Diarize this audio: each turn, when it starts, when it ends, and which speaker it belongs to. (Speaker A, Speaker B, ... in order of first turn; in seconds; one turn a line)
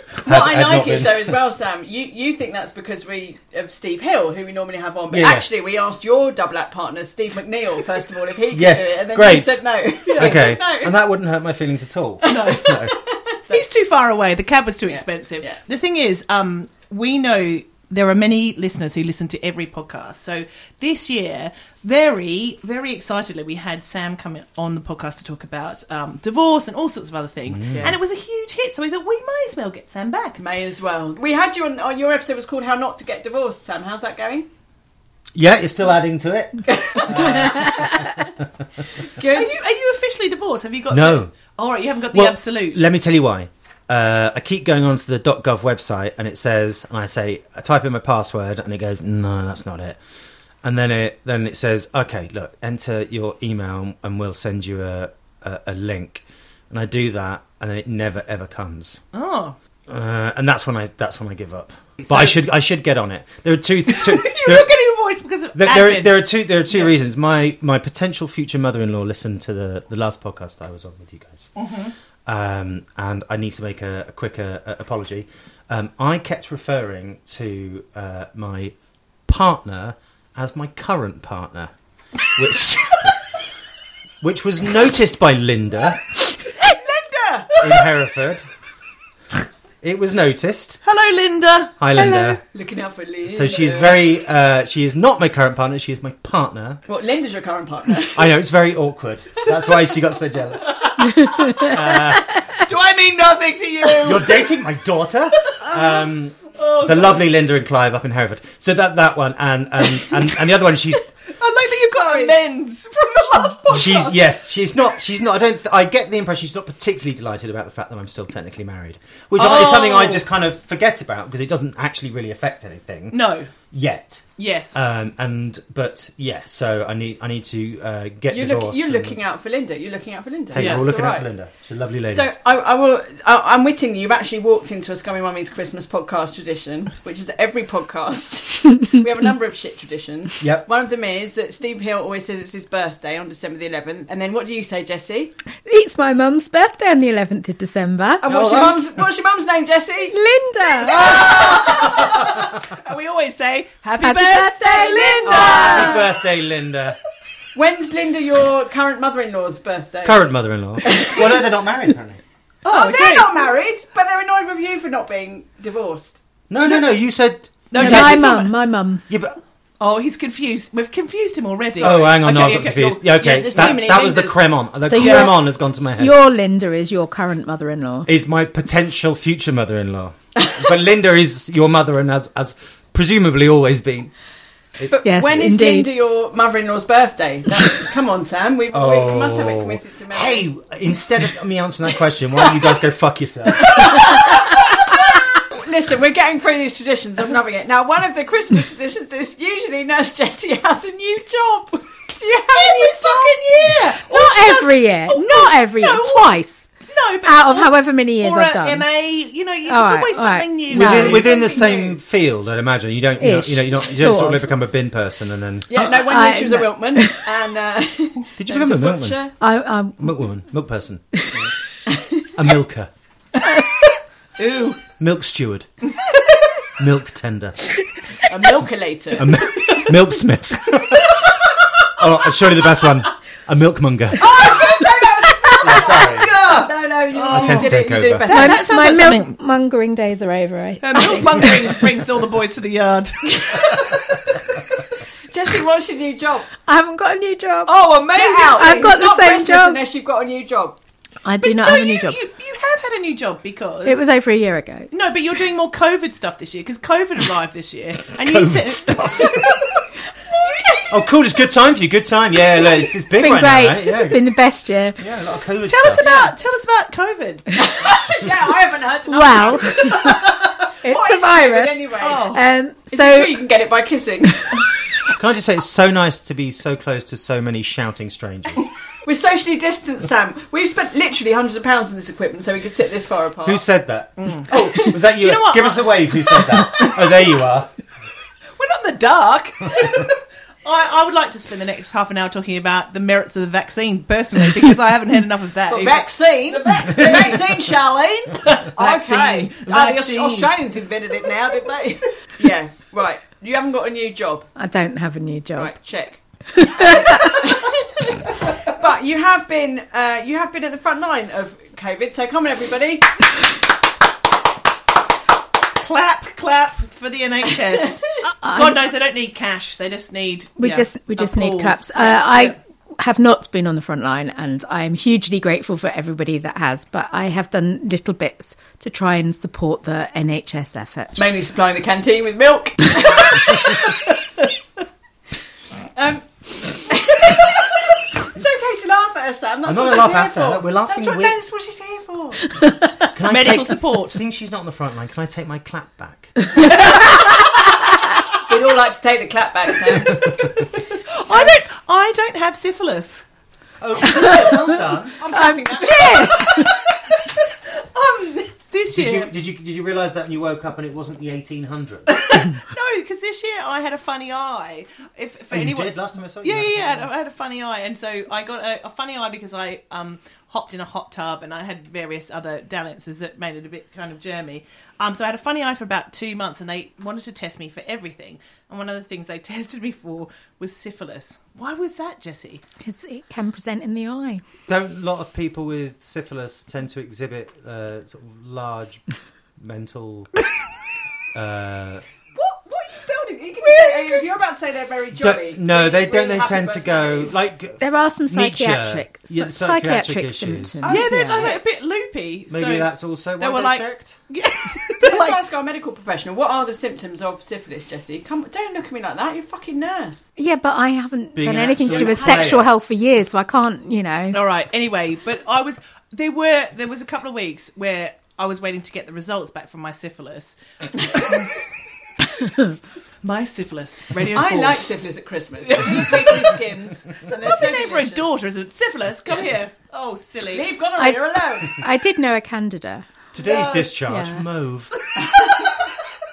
Speaker A: 0.2-1.3
Speaker B: 0.2-10.9
Speaker A: 5.1-5.5
Speaker A: 8.5-9.6
Speaker C: 10.1-10.5
Speaker A: 10.2-12.9
Speaker B: 12.2-13.7
Speaker C: 12.3-12.7
Speaker C: 13.5-30.4
Speaker B: 14.9-15.6
Speaker A: 27.5-28.0
Speaker B: 27.7-28.0
Speaker B: 30.4-34.5
Speaker A: 35.3-38.5
Speaker B: 36.7-38.0
Speaker B: 39.2-39.5
Speaker C: 39.3-42.9
Speaker A: 40.9-41.4
Speaker A: 42.1-50.0
Speaker A: 50.6-59.0
Speaker C: 59.1-59.6
Speaker A: 59.9-64.7
Speaker C: 62.0-62.4
Speaker C: 63.9-66.9
Speaker A: 65.5-71.5
Speaker C: 71.6-71.9
Speaker A: 72.3-78.8
Speaker A: 79.3-81.7
Speaker A: 82.3-82.9
Speaker A: 84.2-86.0
Speaker B: 86.6-87.5
Speaker A: 87.6-88.5
Speaker A: 89.8-90.8
Speaker C: 90.8-91.8
Speaker A: 91.8-92.4
Speaker B: 92.5-94.0
Speaker A: 93.3-96.8
Speaker B: 96.9-98.3
Speaker A: 98.2-100.8
Speaker C: 101.2-101.6
Speaker A: 101.3-102.6
Speaker C: 102.5-104.5
Speaker A: 104.0-111.1
Speaker C: 106.5-107.2
Speaker C: 111.3-114.2
Speaker B: 111.9-112.4
Speaker A: 113.7-129.2
Speaker C: 119.4-120.2
Speaker C: 123.1-123.5
Speaker C: 124.4-124.8
Speaker B: 128.3-131.3
Speaker A: 130.5-132.3
Speaker C: 130.6-130.9
Speaker B: 132.1-145.3
Speaker A: 140.4-140.7
Speaker D: 145.7-148.3
Speaker B: 148.2-150.1
Speaker A: 148.3-148.8
Speaker D: 150.1-151.2
Speaker C: 150.9-156.0
Speaker B: 151.2-151.8
Speaker D: 154.0-155.9
Speaker B: 154.7-156.0
Speaker A: 155.3-157.0
Speaker B: 157.6-160.2
Speaker A: 160.1-162.2
Speaker B: 160.8-161.4
Speaker C: 162.6-163.4
Speaker B: 162.7-166.2
Speaker A: 166.5-168.3
Speaker C: 167.7-168.5
Speaker D: 167.8-169.0
Speaker A: 169.1-169.4
Speaker C: 169.8-174.0
Speaker A: 171.8-176.2
Speaker B: 173.2-174.4
Speaker D: 174.9-175.4
Speaker C: 175.0-175.3
Speaker D: 176.0-178.1
Speaker A: 178.1-184.1
Speaker A: 184.8-185.3
Speaker B: 184.9-190.5
Speaker D: 185.0-185.9
Speaker A: 188.7-194.2
Speaker B: 193.6-203.4
Speaker C: 202.5-206.4
Speaker D: 203.9-206.7
Speaker C: 206.9-211.3
Speaker D: 207.2-208.9
Speaker D: 209.7-211.2
Speaker A: 210.7-215.7
Speaker B: 210.9-212.0
Speaker D: 213.2-214.6
Speaker B: 215.7-219.3
Speaker D: 215.8-217.2
Speaker A: 218.4-219.2
Speaker D: 219.4-220.1
Speaker A: 220.0-221.5
Speaker A: 222.4-222.9
Speaker C: 224.4-224.8
Speaker A: 225.0-225.7
Speaker A: 226.8-227.7
Speaker B: 228.3-229.4
Speaker A: 229.2-231.2
Speaker A: 232.0-234.3
Speaker B: 234.2-238.6
Speaker C: 234.3-239.4
Speaker A: 235.6-236.3
Speaker A: 237.3-238.3
Speaker D: 238.3-241.4
Speaker C: 240.8-243.6
Speaker B: 243.3-244.0
Speaker B: 245.3-246.5
Speaker D: 246.7-249.8
Speaker C: 247.7-249.0
Speaker B: 248.1-250.8
Speaker D: 251.2-252.2
Speaker C: 251.5-254.0
Speaker D: 253.8-254.9
Speaker C: 254.9-259.6
Speaker A: 258.2-259.4
Speaker B: 260.4-260.9
Speaker A: 260.9-264.3
Speaker D: 263.1-265.0
Speaker A: 265.0-266.0
Speaker C: 265.7-267.5
Speaker B: 267.6-270.2
Speaker D: 269.1-270.3
Speaker D: 270.8-273.4
Speaker B: 270.8-272.3
Speaker C: 272.0-272.4
Speaker B: 272.9-274.6
Speaker A: 275.2-278.7
Speaker B: 279.1-283.6
Speaker A: 283.4-287.7
Speaker C: 284.2-286.9
Speaker C: 288.6-297.7
Speaker B: 295.7-304.5
Speaker C: 298.4-300.5
Speaker D: 304.6-305.7
Speaker B: 305.6-306.2
Speaker D: 306.5-307.4
Speaker B: 306.7-313.3
Speaker C: 315.8-322.6
Speaker D: 318.4-318.8
Speaker D: 320.6-331.2
Speaker B: 331.2-334.0
Speaker B: 336.0-342.6
Speaker A: 339.6-341.4
Speaker A: 343.1-346.5
Speaker C: 343.3-344.2
Speaker C: 346.6-347.2
Speaker B: 348.5-350.2
Speaker A: 350.1-350.6
Speaker C: 350.9-353.2
Speaker A: 353.8-355.2
Speaker D: 354.1-354.5
Speaker B: 355.2-356.4
Speaker D: 355.3-356.8
Speaker C: 356.5-357.1
Speaker C: 357.9-359.3
Speaker A: 358.9-362.1
Speaker C: 362.1-382.6
Speaker A: 365.5-367.1
Speaker D: 382.8-384.4
Speaker A: 384.7-389.0
Speaker A: 389.6-390.3
Speaker A: 391.3-392.0
Speaker B: 392.4-397.4
Speaker A: 395.2-400.8
Speaker D: 397.8-401.5
Speaker C: 400.8-405.4
Speaker B: 400.9-401.6
Speaker A: 402.5-404.2
Speaker B: 405.0-410.3
Speaker D: 410.4-414.4
Speaker A: 411.4-412.7
Speaker C: 414.3-420.6
Speaker C: 421.1-421.4
Speaker C: 423.2-424.8
Speaker B: 424.3-428.3
Speaker C: 425.7-426.6
Speaker C: 427.3-430.7
Speaker B: 429.3-429.6
Speaker B: 430.5-431.8
Speaker D: 431.0-433.1
Speaker A: 433.3-434.9
Speaker C: 433.4-433.9
Speaker D: 433.9-434.4